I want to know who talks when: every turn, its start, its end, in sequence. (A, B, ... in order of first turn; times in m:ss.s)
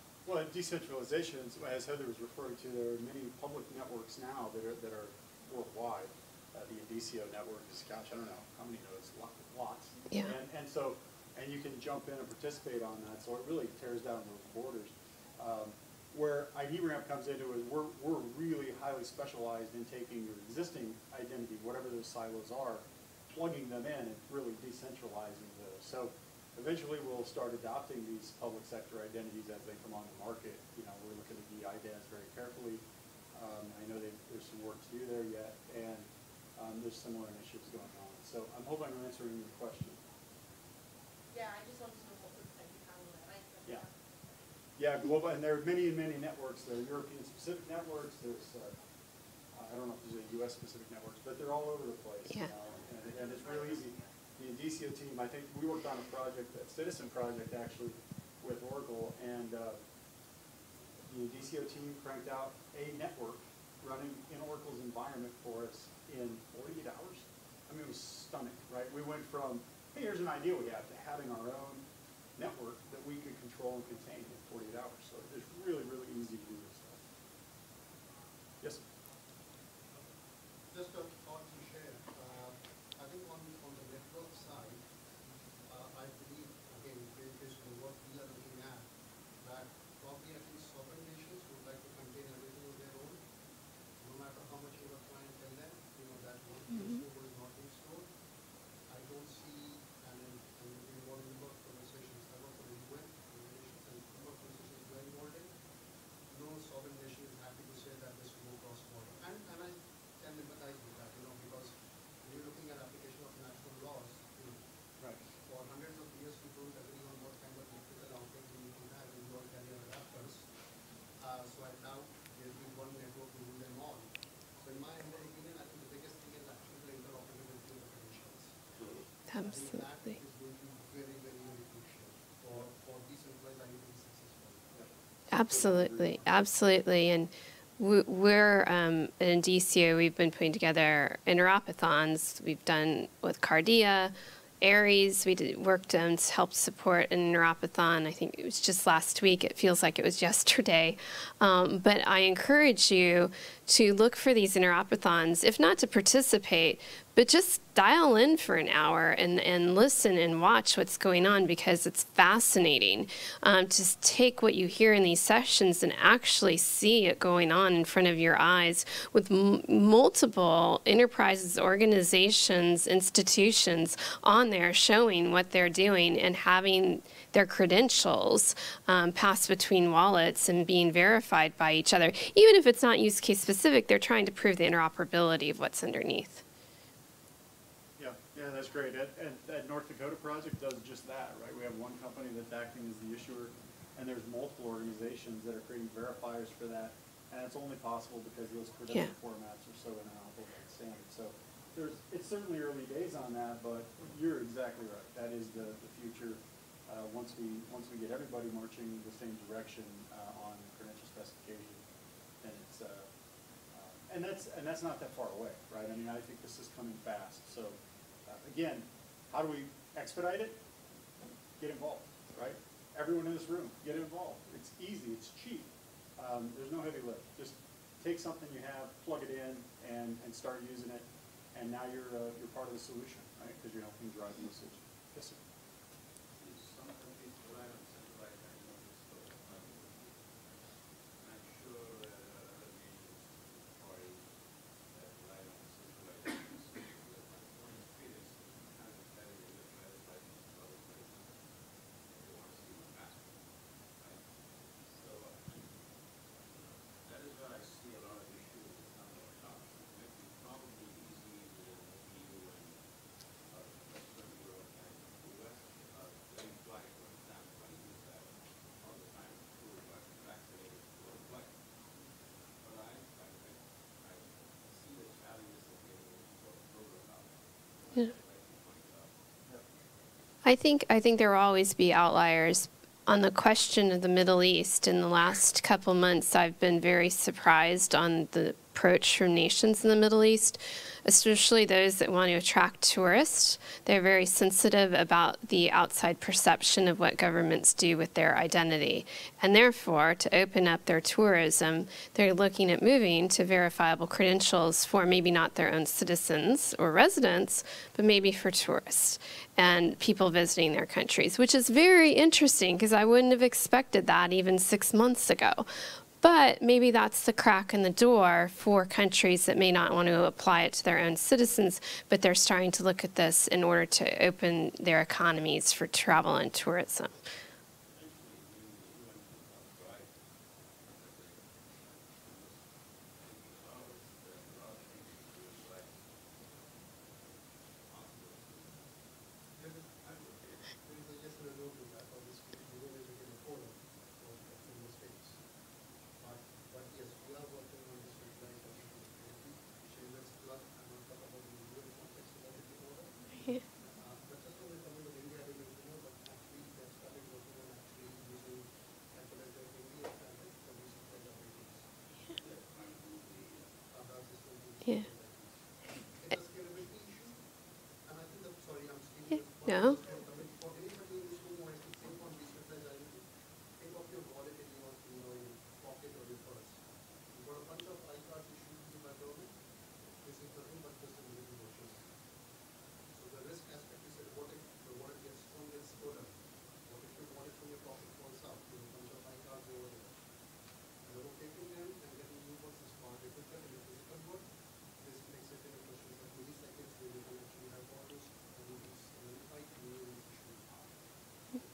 0:00.2-0:40.0 A
0:41.3-0:44.5 B
0:44.8-0:48.8 A
0:49.5-0:59.8 A
0:53.1-0:54.1 B
1:01.1-1:17.0 A
1:20.7-1:28.9 C
1:29.4-1:33.2 C
1:34.0-1:38.1 C
1:38.9-1:45.5 C
1:46.3-1:54.6 C
1:55.4-2:00.5 C
2:01.2-2:08.6 C
2:08.7-2:09.1 D
2:09.3-2:14.8 C
2:09.3-2:09.8 E
2:14.7-2:16.2 A
2:15.3-3:06.4 E
3:08.0-3:31.8 A
3:32.4-3:33.1 A
3:33.7-3:40.6 A
3:41.6-3:55.4 A
3:56.4-4:11.4 D
4:12.0-4:22.8 D
4:23.5-4:31.6 D
4:32.6-4:39.6 D
4:40.4-5:15.7 E
5:16.2-5:27.2 E
5:27.9-5:38.9 D
5:39.6-5:45.4 C
5:46.2-6:01.9 C
6:02.3-6:03.8 D
6:03.9-6:07.4 C
6:08.0-6:13.2 C
6:09.6-6:10.0 E
6:13.8-6:19.5 C
6:20.2-6:22.1 C
6:23.1-6:26.3 C
6:26.8-6:30.2 C
6:31.0-6:34.5 C
6:35.0-6:40.8 C